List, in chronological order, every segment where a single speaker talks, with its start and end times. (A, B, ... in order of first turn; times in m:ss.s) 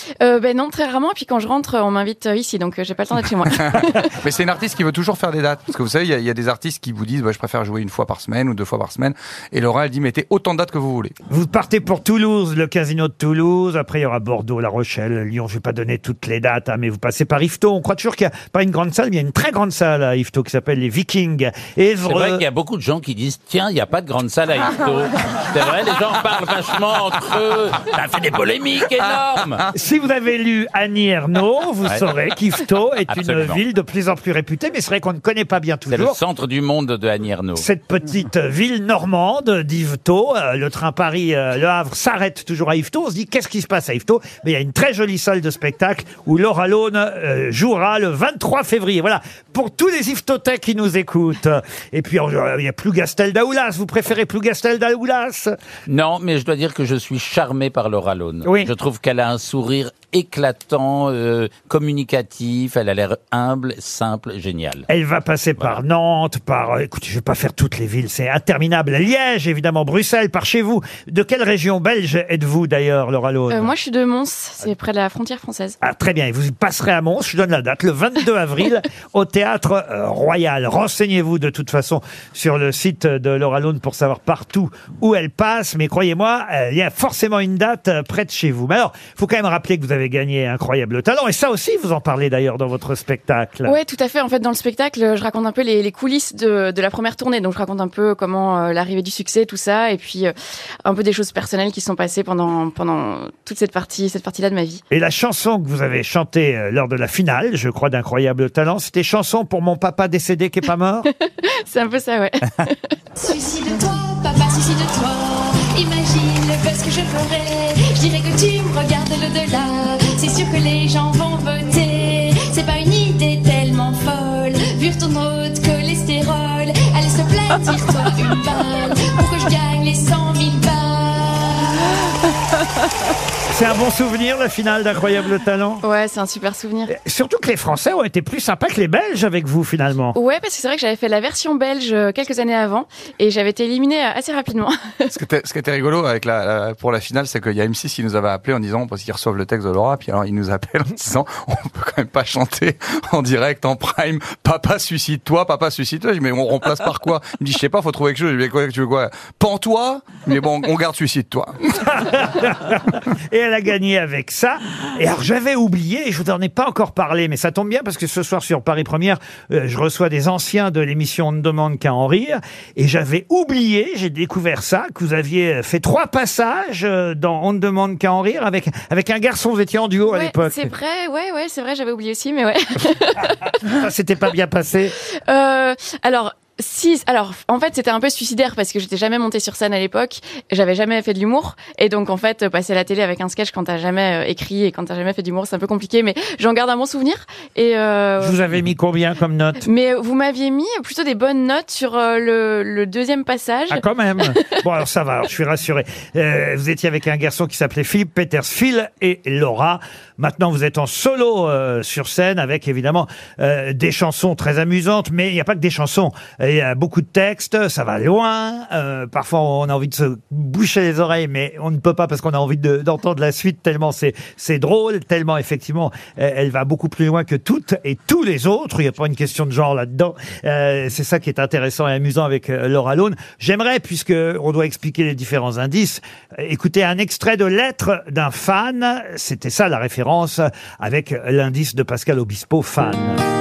0:00.2-0:04.1 A
0:04.2-0:11.2 B
0:11.3-0:22.4 C
0:22.0-0:29.6 D
0:29.7-0:36.2 C
0:33.1-0:33.6 D
0:35.9-0:37.7 D
0:37.6-0:55.5 C
0:55.9-1:04.9 D
0:58.4-0:58.7 C
1:04.9-1:13.7 C
1:13.5-1:15.8 A
1:15.8-1:33.8 C
1:33.6-1:40.3 A
1:40.9-1:44.8 A
1:44.9-1:51.1 C
1:51.7-1:52.9 A
1:53.2-2:02.7 E
2:01.8-2:08.9 A
2:03.4-2:04.0 E
2:06.9-2:07.2 E
2:08.9-2:11.7 E
2:09.7-2:11.1 A
2:13.5-2:15.8 C
2:15.8-2:16.9 A
2:16.9-2:20.2 C
2:20.1-2:25.1 A
2:25.1-2:41.6 B
2:41.8-3:00.7 C
3:00.1-3:03.6 A
3:03.7-3:05.0 C
3:05.3-3:18.4 A
3:18.2-3:19.7 C
3:19.6-3:24.5 A
3:23.7-4:03.2 C